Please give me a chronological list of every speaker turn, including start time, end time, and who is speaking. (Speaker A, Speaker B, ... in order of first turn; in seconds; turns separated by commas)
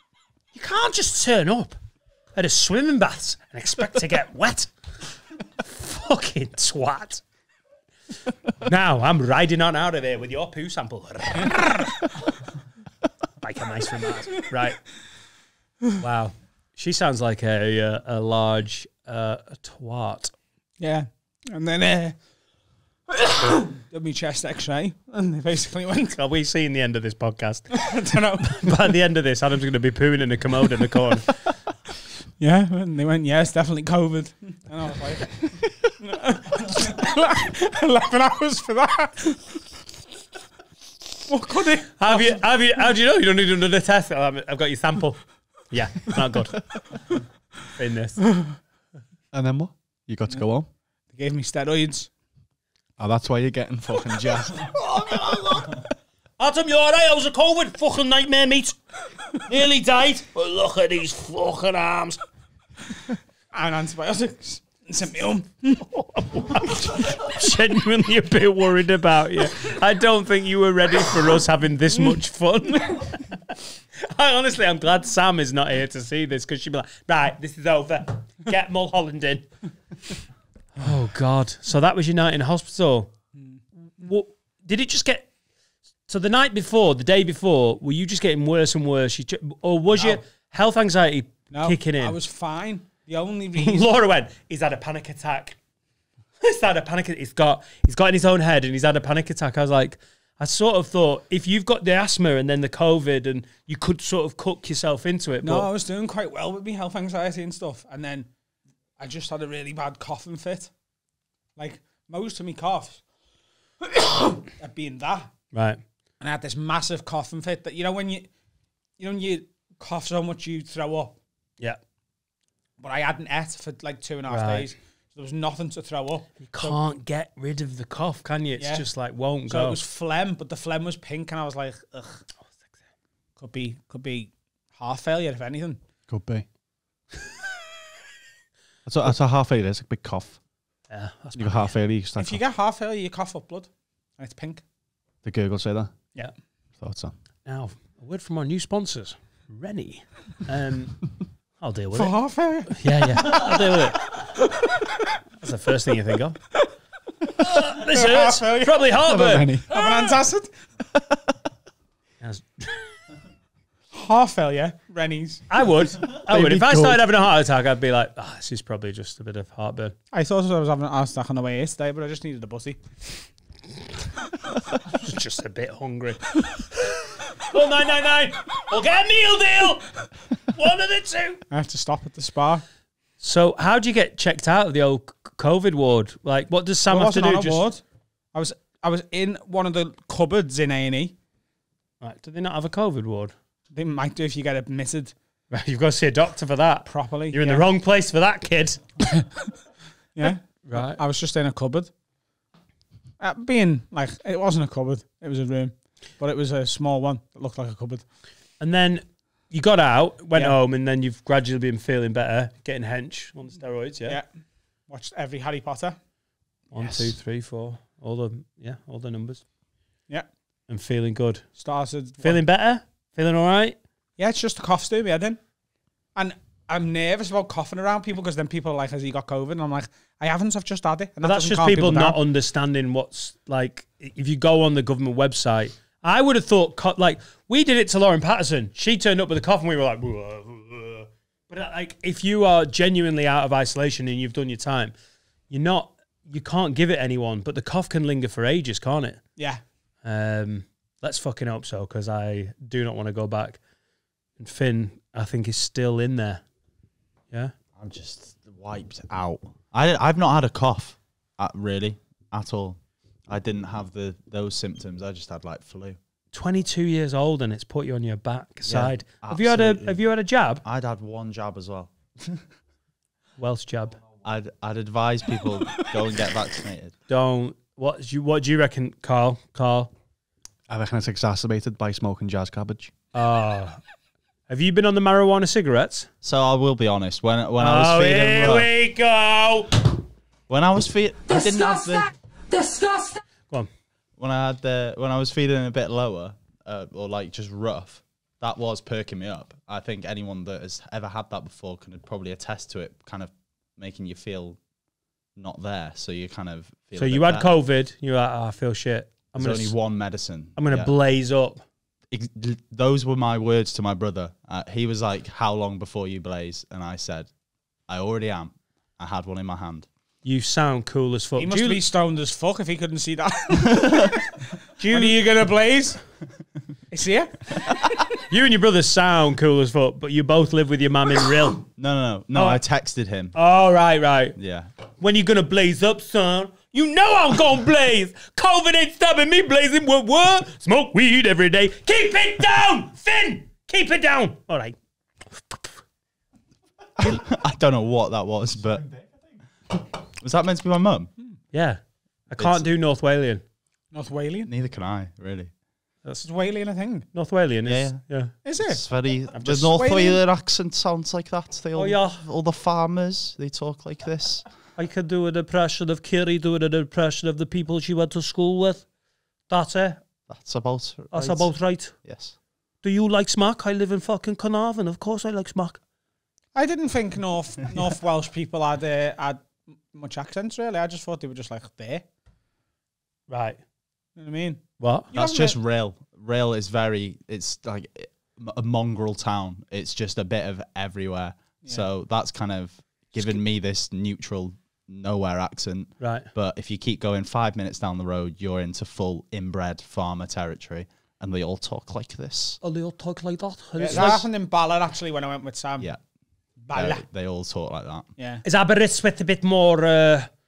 Speaker A: 0.5-1.8, Speaker A: 2.3-4.7, Speaker A: 5.6-7.2, Speaker A: 8.6-12.1, Speaker A: 13.4-14.9, Speaker A: 16.0-20.3, Speaker B: 20.8-22.2, Speaker B: 23.2-26.1, Speaker A: 26.1-31.3, Speaker B: 27.7-28.7, Speaker B: 32.4-39.5, Speaker B: 41.3-42.4, Speaker A: 42.0-47.2, Speaker A: 47.7-48.4, Speaker C: 49.3-50.7, Speaker B: 51.1-52.1, Speaker C: 53.0-55.3, Speaker A: 54.4-55.8, Speaker A: 56.4-58.8, Speaker A: 59.3-62.2, Speaker B: 63.5-65.8, Speaker A: 65.8-79.5, Speaker A: 80.8-83.1, Speaker A: 84.0-85.3, Speaker A: 86.1-92.2, Speaker B: 90.0-90.2, Speaker B: 91.5-93.9, Speaker A: 93.6-95.6, Speaker A: 96.4-105.7, Speaker B: 105.4-108.3, Speaker B: 109.0-110.7, Speaker B: 111.6-113.0, Speaker B: 114.0-115.3, Speaker A: 115.5-115.8, Speaker B: 116.2-118.3, Speaker B: 119.0-121.1, Speaker B: 122.8-126.8, Speaker A: 124.3-124.7, Speaker A: 126.5-129.8, Speaker B: 128.6-128.9, Speaker B: 129.5-132.2, Speaker B: 133.4-135.8, Speaker C: 136.1-136.4, Speaker C: 138.8-140.4, Speaker A: 140.9-141.8, Speaker C: 141.3-142.4, Speaker B: 142.2-144.6, Speaker C: 145.2-145.9, Speaker C: 146.8-147.1, Speaker A: 147.4-154.2, Speaker B: 151.9-153.5, Speaker A: 155.4-156.4, Speaker A: 157.4-160.2, Speaker B: 157.9-158.9, Speaker C: 159.0-159.7, Speaker B: 159.7-160.5, Speaker C: 160.9-161.2, Speaker A: 162.2-162.9, Speaker B: 163.9-165.4, Speaker A: 165.5-169.9, Speaker C: 166.3-167.0, Speaker B: 170.1-172.8, Speaker A: 174.8-181.4, Speaker B: 181.5-182.6, Speaker A: 183.2-187.6, Speaker B: 186.9-187.8, Speaker B: 188.3-191.1, Speaker A: 192.0-193.3, Speaker B: 193.7-195.1, Speaker A: 195.5-198.9, Speaker B: 196.8-197.7, Speaker B: 200.2-201.9, Speaker A: 200.2-201.0, Speaker B: 203.2-208.0, Speaker A: 208.6-214.2, Speaker B: 214.9-216.0, Speaker A: 216.7-219.4, Speaker D: 216.8-217.1, Speaker A: 220.7-221.5, Speaker B: 221.6-222.4, Speaker A: 222.2-223.8, Speaker B: 224.2-225.4, Speaker B: 226.2-232.2, Speaker A: 231.2-244.9, Speaker A: 245.5-249.2, Speaker A: 250.0-253.6, Speaker A: 254.4-256.4, Speaker D: 257.8-266.0, Speaker A: 266.3-270.6, Speaker D: 268.6-270.0, Speaker D: 270.6-272.4, Speaker A: 273.4-274.0, Speaker D: 274.2-276.9, Speaker A: 277.1-279.9, Speaker C: 280.7-282.9, Speaker A: 283.1-283.8, Speaker A: 284.5-286.1, Speaker D: 286.2-288.7, Speaker A: 287.6-289.9, Speaker D: 290.5-292.1, Speaker E: 291.3-293.2, Speaker D: 294.2-304.6, Speaker D: 305.4-307.5, Speaker A: 307.0-309.8, Speaker D: 309.4-310.9, Speaker A: 310.6-311.6, Speaker D: 312.1-317.3, Speaker D: 317.9-319.9, Speaker A: 320.2-321.8, Speaker B: 321.4-326.0, Speaker A: 324.9-325.2, Speaker B: 326.9-328.0, Speaker A: 328.3-331.6, Speaker D: 331.8-333.3, Speaker A: 332.3-332.6, Speaker A: 333.3-334.4, Speaker D: 334.4-334.7, Speaker A: 335.0-344.7, Speaker A: 345.3-345.6, Speaker D: 347.0-349.1, Speaker D: 349.7-351.1, Speaker A: 351.5-353.4, Speaker D: 352.4-352.6, Speaker B: 353.9-354.5, Speaker D: 354.5-355.5, Speaker B: 356.2-357.1, Speaker A: 357.1-358.3, Speaker D: 357.6-358.1, Speaker B: 358.4-358.8, Speaker D: 358.6-364.4, Speaker A: 359.3-359.8, Speaker B: 359.7-360.2, Speaker A: 361.7-362.2, Speaker A: 364.8-368.9, Speaker A: 369.5-370.0, Speaker D: 370.3-372.3, Speaker A: 371.1-372.0, Speaker A: 372.8-375.8, Speaker B: 376.5-382.0, Speaker A: 383.3-383.6, Speaker B: 384.2-385.6, Speaker A: 384.8-385.1, Speaker D: 385.1-402.6, Speaker A: 396.0-396.3, Speaker A: 402.6-404.3, Speaker B: 403.8-405.9, Speaker D: 403.9-404.2, Speaker B: 406.7-407.0, Speaker D: 406.7-408.1, Speaker B: 408.2-408.4, Speaker A: 408.4-410.3